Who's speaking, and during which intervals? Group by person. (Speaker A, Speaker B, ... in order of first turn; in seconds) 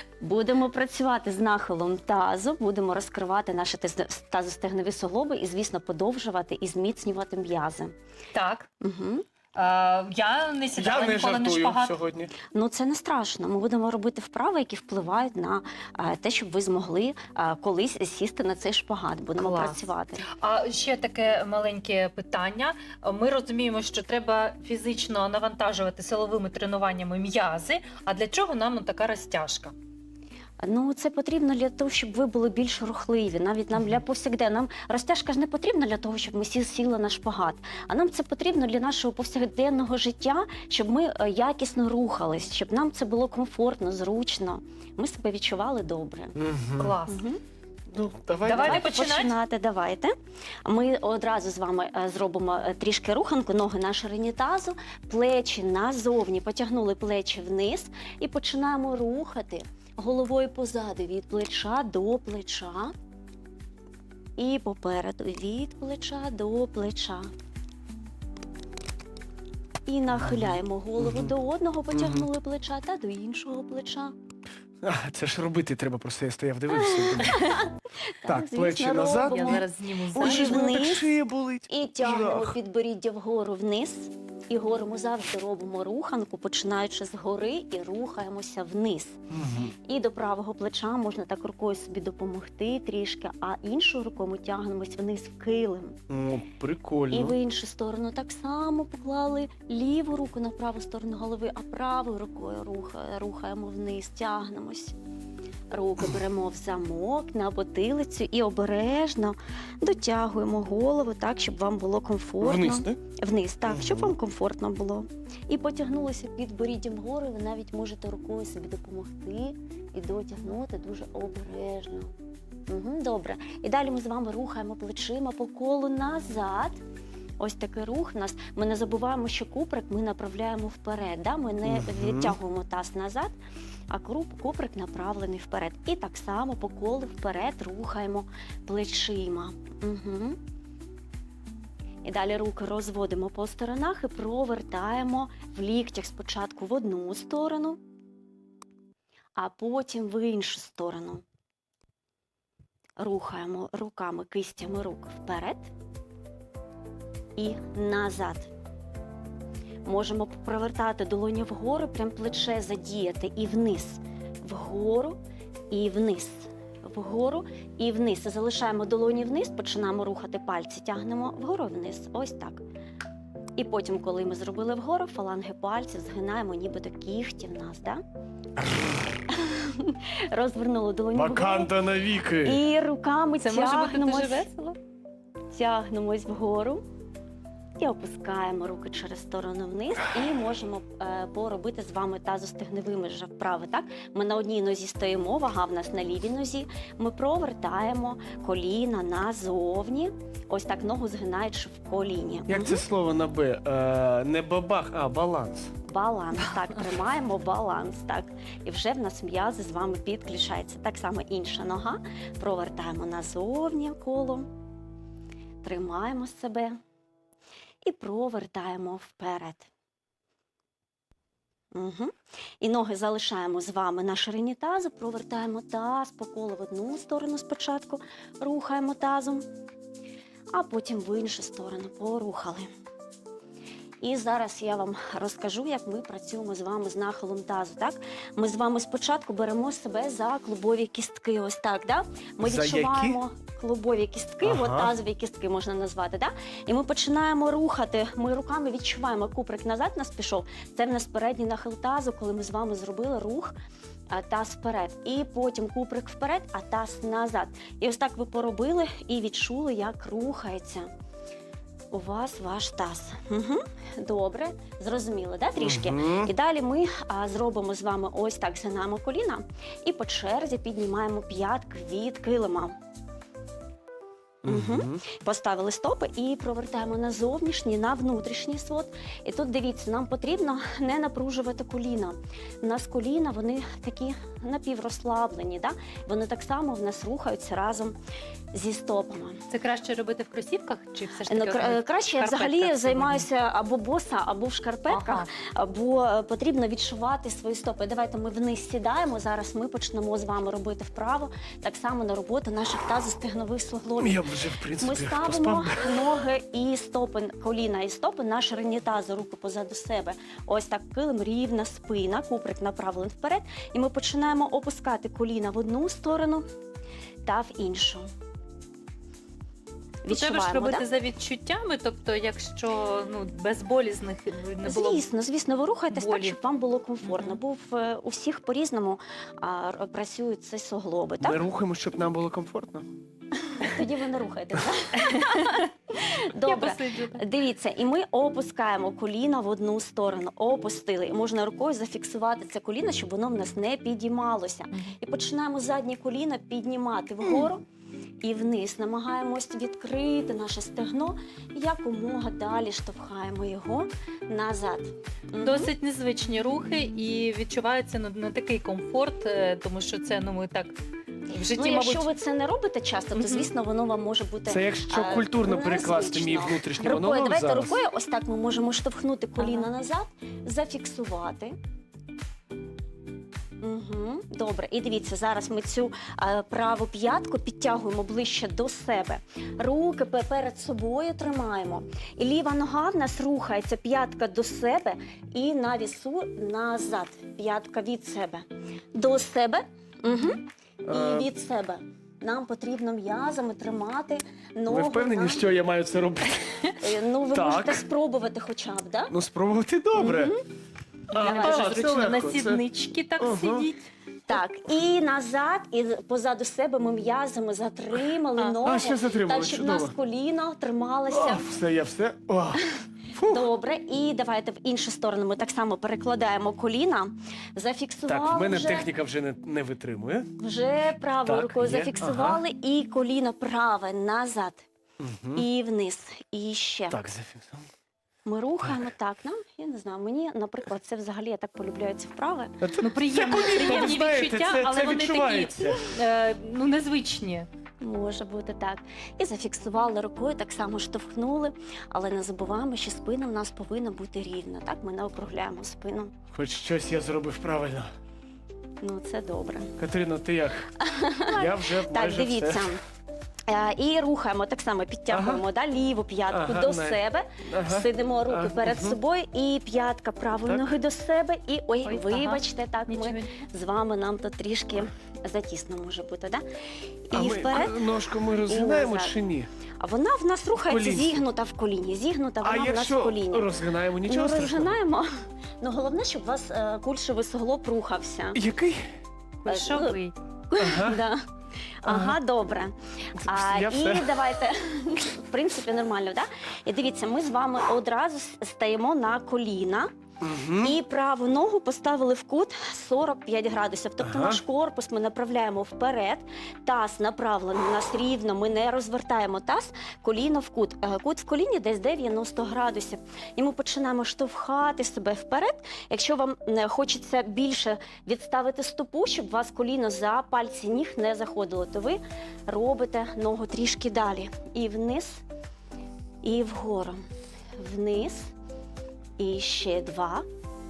Speaker A: 0.2-7.9, 8.8-9.2, 12.5-20.2, 30.6-46.4, 47.1-47.4, 48.6-50.1, 50.6-62.9, 64.4-67.3, 69.8-74.1, 76.8-81.1, 81.7-89.2, 89.8-96.0, 97.1-104.9, 105.7-122.1, 122.7-126.8, 127.4-133.3, 133.9-140.4, 142.0-147.8, 149.3-151.2, 153.0-155.7, 157.3-158.5, 159.8-165.2, 165.7-172.6, 173.6-178.0, 179.3-181.7, 182.4-184.5, 185.5-186.8, 187.8-202.8, 205.8-214.5, 215.6-216.8, 217.8-219.7, 221.7-229.4, 230.5-232.7, 234.0-253.5, 254.1-260.9, 261.9-272.8, 274.4-287.9, 288.5-289.4, 291.3-304.2, 304.8-316.4, 317.2-318.1, 320.0-320.9, 324.6-331.4, 333.5-347.6, 348.2-355.7, 361.5-371.6, 373.6-395.4, 396.8-399.1, 399.9-400.4, 401.1-401.7, 404.3-411.4, 413.3-418.9, 420.4-424.6, 425.3-427.0, 428.2-432.6, 433.4-434.0, 437.8-446.1, 448.8-449.7, 450.8-452.8, 453.5-466.4, 467.1-469.1, 469.8-475.1, 475.6-478.4, 479.5-481.2, 481.8-489.9, 490.6-515.2, 516.2-517.0, 517.6-518.3, 519.2-520.2
Speaker B: 8.3-8.7, 9.6-11.9, 19.4-29.7, 46.8-47.2, 48.4-49.4, 79.3-80.6, 183.4-184.8, 289.5-293.2, 294.9-295.3, 320.1-325.0, 325.9-326.4, 327.0-327.4, 336.4-337.2, 355.4-360.8, 361.3-362.1, 363.1-363.5, 369.4-369.7, 401.1-403.8, 432.8-437.5, 461.8-463.3, 479.4-480.1
Speaker C: 10.7-12.3, 46.4-47.0, 47.9-48.9, 70.2-71.3, 71.9-72.3, 74.8-77.6, 78.2-79.6, 80.2-82.5, 89.3-89.7, 96.1-97.3, 112.4-113.0, 113.7-114.1, 131.6-132.3, 181.1-182.6, 202.5-205.7, 242.4-243.2, 244.4-244.9, 265.6-266.3, 274.4-275.0, 304.0-305.9, 331.2-332.9, 364.5-367.8, 390.9-391.3, 394.7-396.7, 397.3-397.8, 399.1-400.3, 401.1-402.6, 403.2-403.7, 408.6-409.9, 411.1-413.4, 418.1-420.3, 421.2-422.4, 425.0-425.4, 426.9-427.6, 432.6-435.9, 446.3-447.9, 449.8-450.7, 451.2-452.7, 455.1-455.4, 456.3-459.0, 467.1-469.5, 470.6-471.2, 472.4-474.7, 478.3-478.9, 480.6-481.0, 481.8-482.2, 483.2-484.2, 490.2-490.8, 494.0-494.4